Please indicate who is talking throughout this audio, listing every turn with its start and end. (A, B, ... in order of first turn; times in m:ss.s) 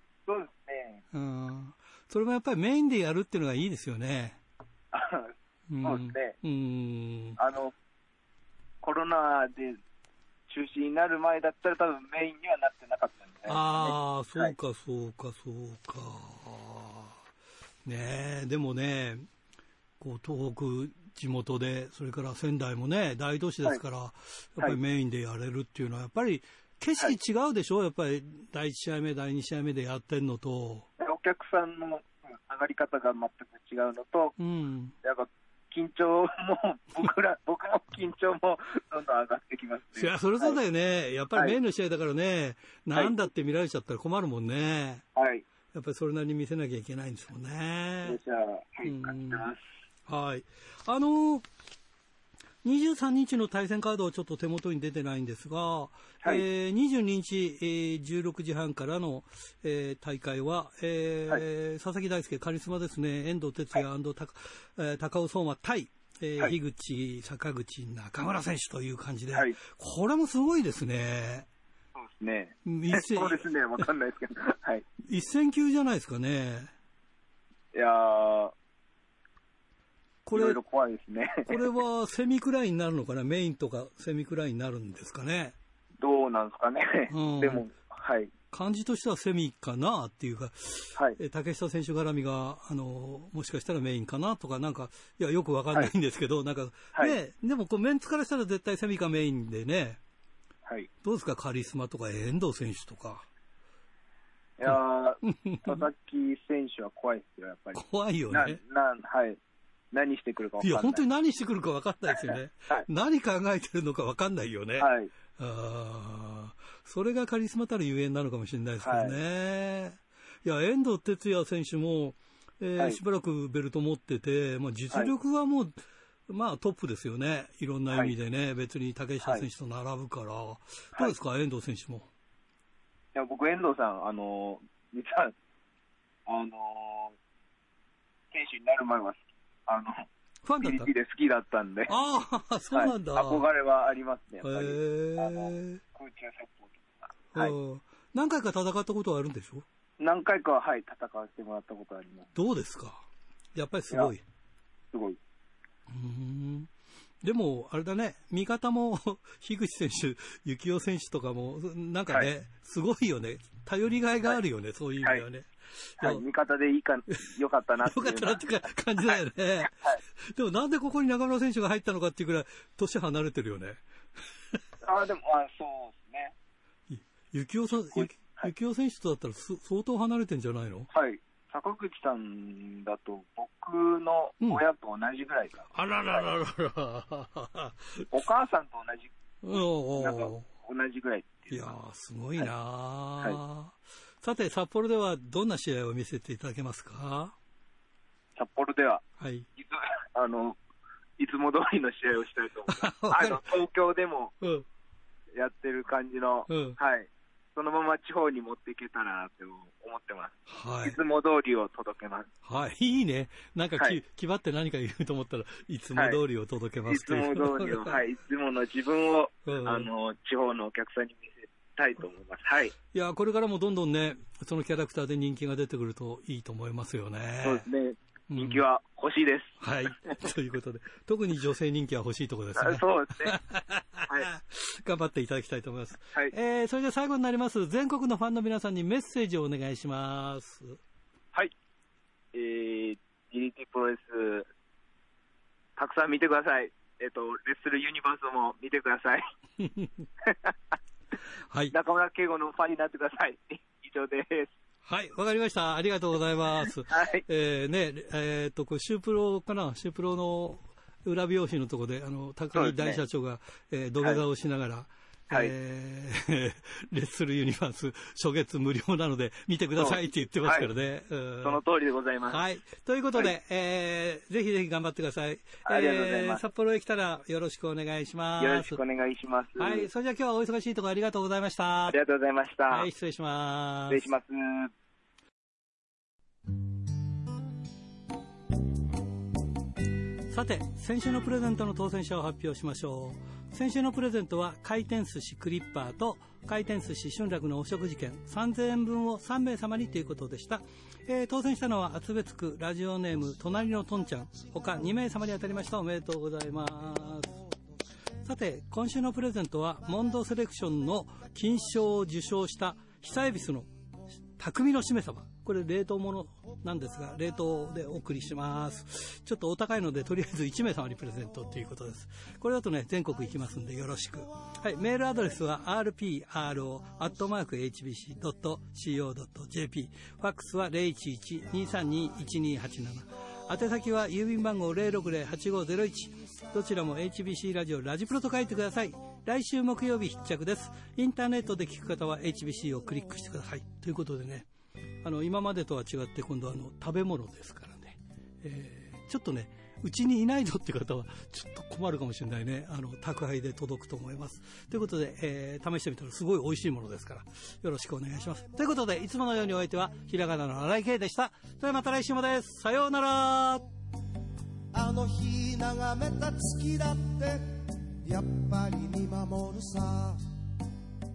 0:00.3-0:01.0 A
0:01.1-0:04.4 B
0:04.9-0:05.3 A
0:05.7-0:07.4 B
0:05.8-0:06.4 A
0:07.4-0:07.7 A
0:08.8-0:09.8 A
0:10.5-0:14.5 A
0:13.5-0:17.2 B
0:17.8-0:19.3 B
0:20.0-0:30.9 B
0:31.0-0:34.4 A
0:34.4-0:34.9 B
0:35.0-0:40.6 A
0:40.0-0:45.0 B
0:45.2-0:45.4 A
0:45.7-0:48.2 B
0:48.0-0:49.6 A
0:48.8-0:49.5 B
0:50.1-0:51.5 B
0:52.6-1:11.5 B
1:09.3-1:09.6 A
1:12.0-1:14.9 A
1:12.7-1:13.4 B
1:15.0-1:16.7 B
1:17.7-1:18.5 A
1:20.3-1:20.6 B
1:20.3-1:21.6 A
1:21.5-1:25.6 B
1:26.0-1:28.3 A
1:27.1-1:27.6 B
1:28.5-1:40.0 B
1:41.0-1:43.3 B
1:44.6-1:49.4 A
1:44.7-1:45.8 B
1:47.8-1:48.6 B
1:49.9-1:51.0 A
1:50.6-2:05.7 B
1:52.2-1:52.9 A
1:54.8-1:55.1 A
1:58.8-1:59.2 A
2:06.3-2:12.1 B
2:13.2-2:15.3 A
2:16.3-2:17.2 A
2:18.3-2:20.1 A
2:20.5-2:20.9 B
2:20.6-2:21.9 A
2:21.9-2:23.4 B
2:22.7-2:27.6 A
2:24.4-2:25.8 B
2:27.4-2:29.6 B
2:30.0-2:32.3 A
2:32.4-2:33.0 B
2:33.6-2:34.2 B
2:34.9-2:35.2 A
2:35.9-2:36.7 B
2:37.2-2:46.2 B
2:46.0-2:50.0 A
2:47.8-2:53.8 B
2:54.8-2:56.3 A
2:56.9-3:00.9 B
2:57.9-2:58.5 A
3:00.9-3:06.3 A
3:05.7-3:08.1 B
3:08.1-3:11.7 A
3:09.4-3:10.5 B
3:11.5-3:17.4 B
3:18.4-3:19.0 A
3:19.2-3:19.5 B
3:19.6-3:20.6 A
3:21.2-3:24.4 A
3:22.7-3:23.4 B
3:25.4-3:32.3 A
3:26.5-3:26.8 B
3:30.5-3:31.0 B
3:32.4-3:38.0 B
3:36.0-3:36.2 A
3:36.9-3:42.8 A
3:39.5-3:39.9 B
3:42.9-3:47.7 B
3:47.4-3:49.6 A
3:48.3-3:48.6 B
3:49.6-4:00.8 B
3:52.6-3:53.4 A
4:02.3-4:04.5 A
4:05.8-4:09.2 A
4:09.6-4:10.1 B
4:10.2-4:10.8 A
4:11.5-4:11.8 B
4:11.7-4:14.5 A
4:14.9-4:31.6 B
4:16.9-4:17.2 A
4:22.5-4:23.0 A
4:29.8-4:30.7 A
4:31.4-4:32.4 A
4:32.3-4:38.8 B
4:35.6-4:36.4 A
4:38.4-4:39.9 A
4:39.6-4:42.0 B
4:41.9-4:42.9 A
4:42.7-4:44.1 B
4:43.9-4:44.7 A
4:50.3-5:07.4 B
5:08.2-5:13.7 B
5:14.4-5:44.5 B
5:45.0-6:03.7 B
6:04.7-6:10.2 C